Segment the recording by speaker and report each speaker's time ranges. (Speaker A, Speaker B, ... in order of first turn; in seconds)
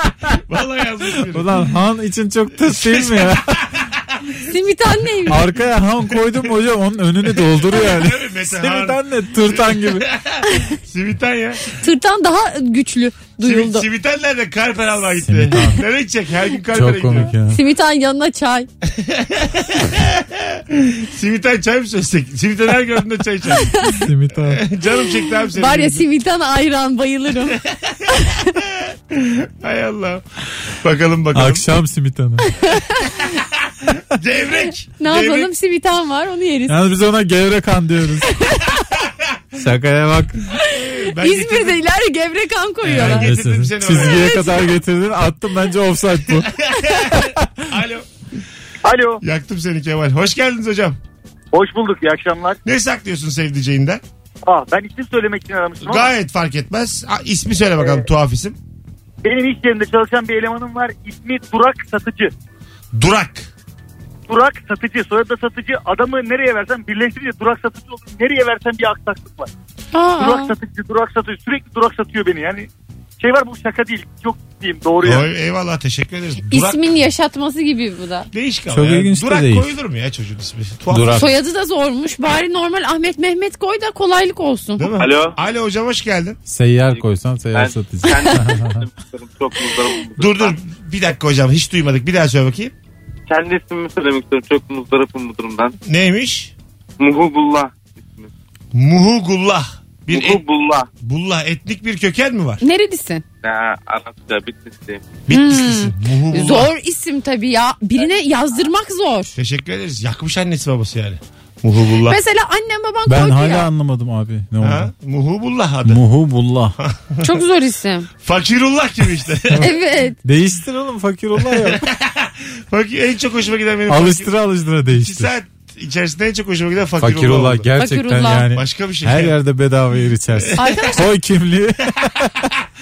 Speaker A: 0.3-1.7, 2.5-4.3, 6.1-6.5, 7.3-11.7, 13.4-17.3, 18.9-23.8, 24.4-26.0, 27.5-31.7, 33.2-35.5, 39.0-39.4, 40.6-41.8, 43.0-44.6, 46.4-48.1, 49.2-51.0, 52.6-54.0, 55.8-58.6, 62.9-63.5, 75.0-76.8, 78.3-81.3, 84.8-86.4, 90.2-92.7, 95.8-96.5, 98.7-100.4, 101.0-102.6, 105.3-106.7, 109.4-112.2, 114.6-116.0, 116.8-117.4, 118.2-119.7, 121.4-124.3, 124.9-127.7, 128.5-129.4, 130.3-131.0
Speaker B: 1.3-3.6, 5.3-10.1, 15.2-15.8, 16.7-17.6, 23.9-24.6, 31.3-32.5, 36.7-38.3, 39.6-40.4, 42.8-46.5, 78.7-79.7, 80.9-81.3, 86.5-88.8, 113.1-114.9, 115.9-116.8, 120.2-121.8, 123.9-125.3, 127.0-132.4
Speaker C: 4.5-5.5, 11.7-13.9, 17.5-18.7, 23.5-24.0, 25.5-28.6, 32.4-33.4, 35.0-36.8, 40.5-43.3, 44.0-44.7, 69.9-70.5, 76.5-78.3, 81.2-84.9, 88.1-88.5, 102.6-103.2, 105.3-109.4, 112.1-113.7, 117.2-118.1, 119.6-120.2, 127.8-128.5, 130.6-131.1
Speaker D: 48.8-49.2, 51.5-52.6, 54.5-56.1, 59.2-62.3, 64.3-69.5, 70.2-72.7, 73.2-75.3
Speaker E: 85.0-85.3, 86.9-90.5, 93.3-95.7, 97.0-98.3, 100.1-100.9, 103.4-105.1